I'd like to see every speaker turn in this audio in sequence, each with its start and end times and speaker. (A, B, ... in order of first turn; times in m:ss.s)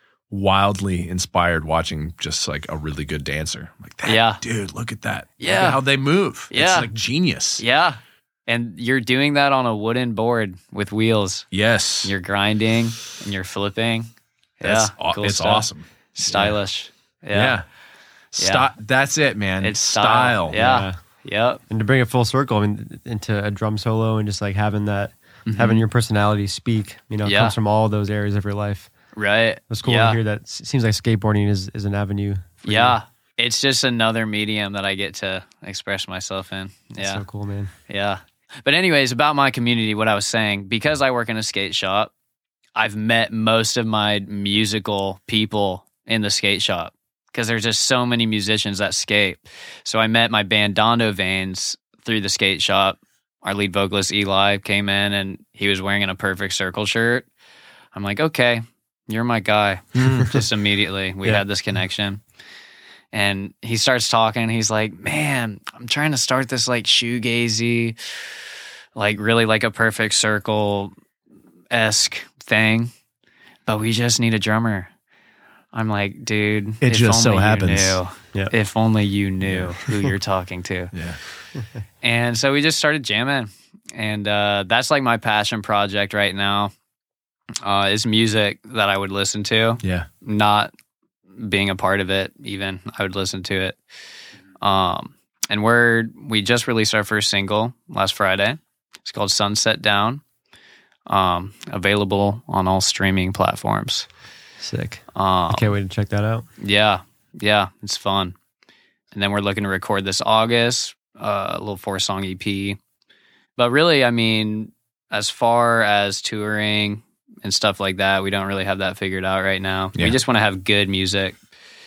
0:00.3-0:07.6 A
0:04.0-0:04.4 B
0:05.4-0:05.8 B
0:06.5-0:06.9 B
0:07.6-0:11.5 B
0:11.5-0:12.1 A
0:12.0-0:14.1 B
0:14.6-0:17.6 B
0:14.6-0:16.6 A
0:17.3-0:17.6 A
0:18.3-0:20.6 A
0:18.4-0:18.7 B
0:19.6-0:21.6 B
0:20.6-0:21.0 C
0:21.7-0:28.9 C
0:25.5-0:25.8 B
0:27.2-0:27.6 B
0:29.2-0:30.2 B
0:29.7-0:33.0 C
0:32.6-0:37.2 B
0:37.0-0:37.7 C
0:37.9-0:42.1 B
0:42.8-0:57.3 B
0:57.9-1:02.2 B
1:00.0-1:00.4 A
1:03.1-1:08.0 B
1:09.0-1:10.9 B
1:11.7-1:12.9 B
1:13.7-1:14.9 B
1:15.7-1:20.9 B
1:16.8-1:18.0 A
1:19.4-1:19.8 A
1:20.9-1:21.2 A
1:22.0-1:26.7 B
1:27.6-1:30.7 B
1:29.8-1:30.1 A
1:31.4-1:33.8 B
1:34.6-1:40.2 B
1:41.1-1:44.1 B
1:44.6-1:46.5 C
1:45.2-1:45.7 B
1:46.6-1:48.4 B
1:49.1-1:52.8 B
1:53.6-2:01.4 B